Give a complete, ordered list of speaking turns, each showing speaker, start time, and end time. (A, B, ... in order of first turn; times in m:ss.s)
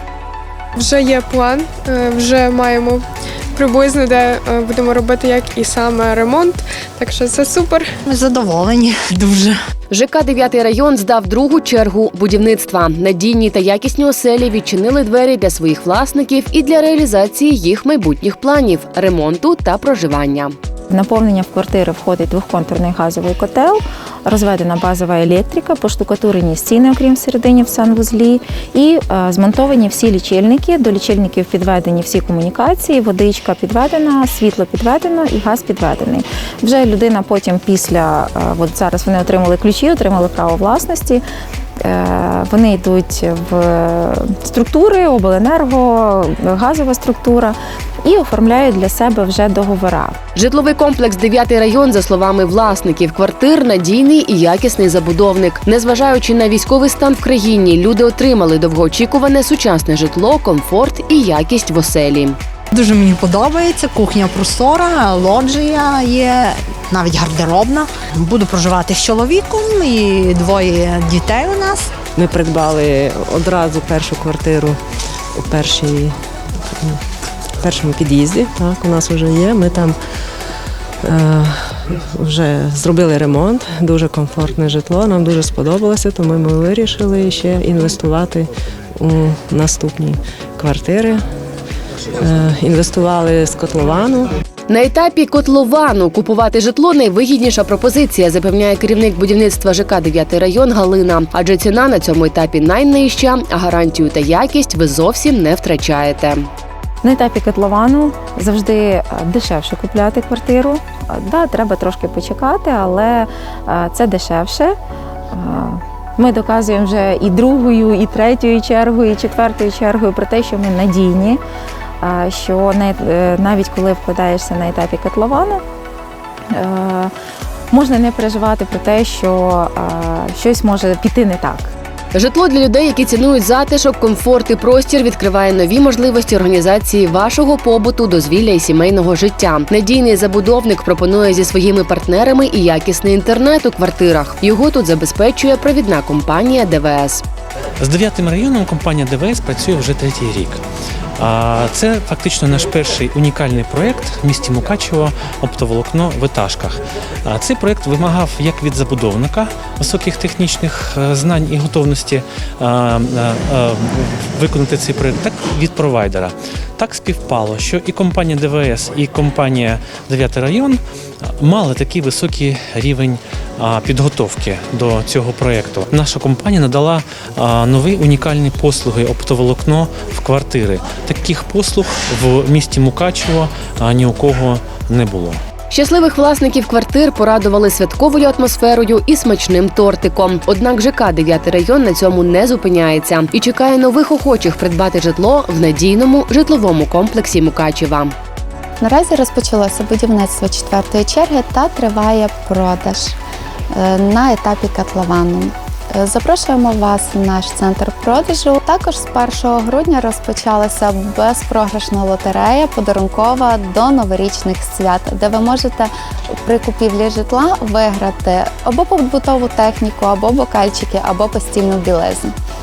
0:00.8-0:07.9 A
0:08.1-0:09.6 B
0:09.9-0:20.6 C
0:20.9-0:41.2 D
0:41.8-0:50.2 D
0:50.4-1:02.4 C
1:02.7-1:11.9 B
1:12.2-1:14.8 E
1:15.4-1:16.2 E
1:17.6-1:20.0 E
1:21.0-1:31.3 E
1:32.2-1:34.4 E
1:34.7-1:46.4 C
1:47.0-1:54.8 D
1:55.3-2:01.4 D
2:02.0-2:05.6 D
2:06.5-2:07.1 D
2:07.7-2:11.7 D
2:12.2-2:27.2 C
2:27.8-2:30.6 F
2:31.2-2:50.8 F
2:51.4-3:05.4 F
3:05.7-3:18.1 C
3:18.8-3:23.2 G
3:23.7-3:42.4 G